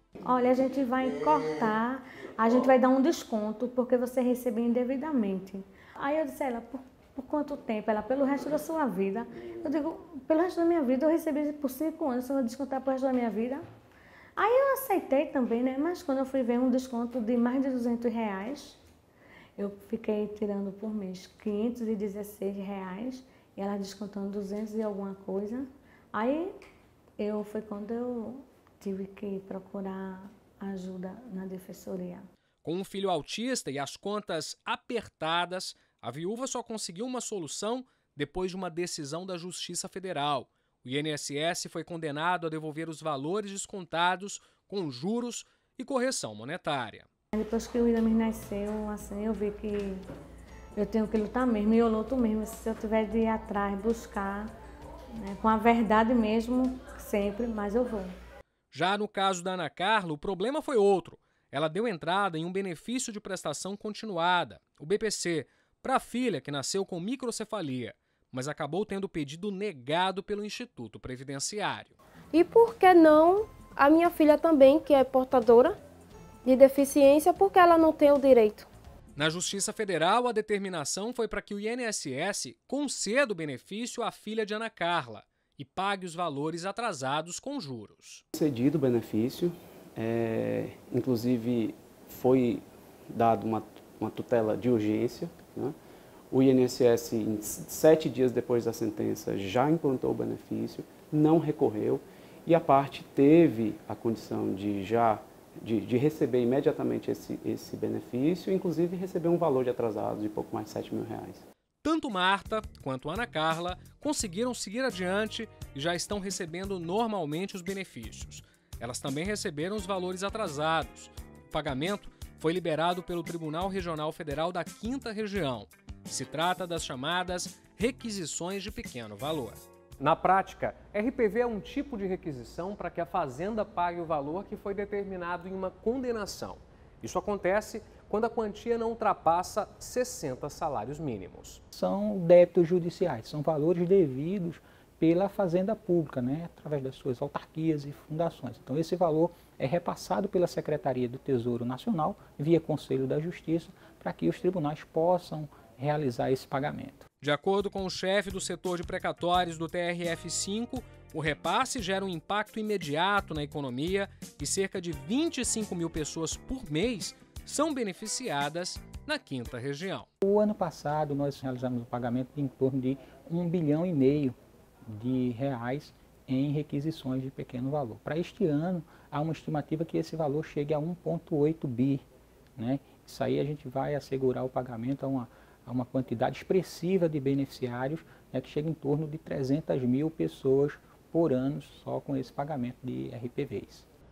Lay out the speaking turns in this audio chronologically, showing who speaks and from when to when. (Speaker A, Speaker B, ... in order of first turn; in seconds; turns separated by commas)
Speaker A: 0.2-13.6, Speaker A: 14.4-18.8, Speaker A: 19.6-26.5, Speaker A: 27.2-32.2, Speaker B: 32.6-47.1, Speaker A: 47.3-50.0, Speaker A: 50.8-54.5, Speaker A: 55.2-58.1, Speaker B: 58.7-71.9, Speaker C: 72.3-75.8, Speaker C: 76.4-78.7, Speaker B: 79.2-88.2, Speaker D: 88.3-95.7, Speaker D: 96.3-111.4, Speaker B: 111.8-141.6, Speaker E: 141.7-157.1, Speaker B: 157.2-170.1, Speaker E: 170.2-174.3, Speaker E: 174.9-182.0, Speaker E: 182.6-193.9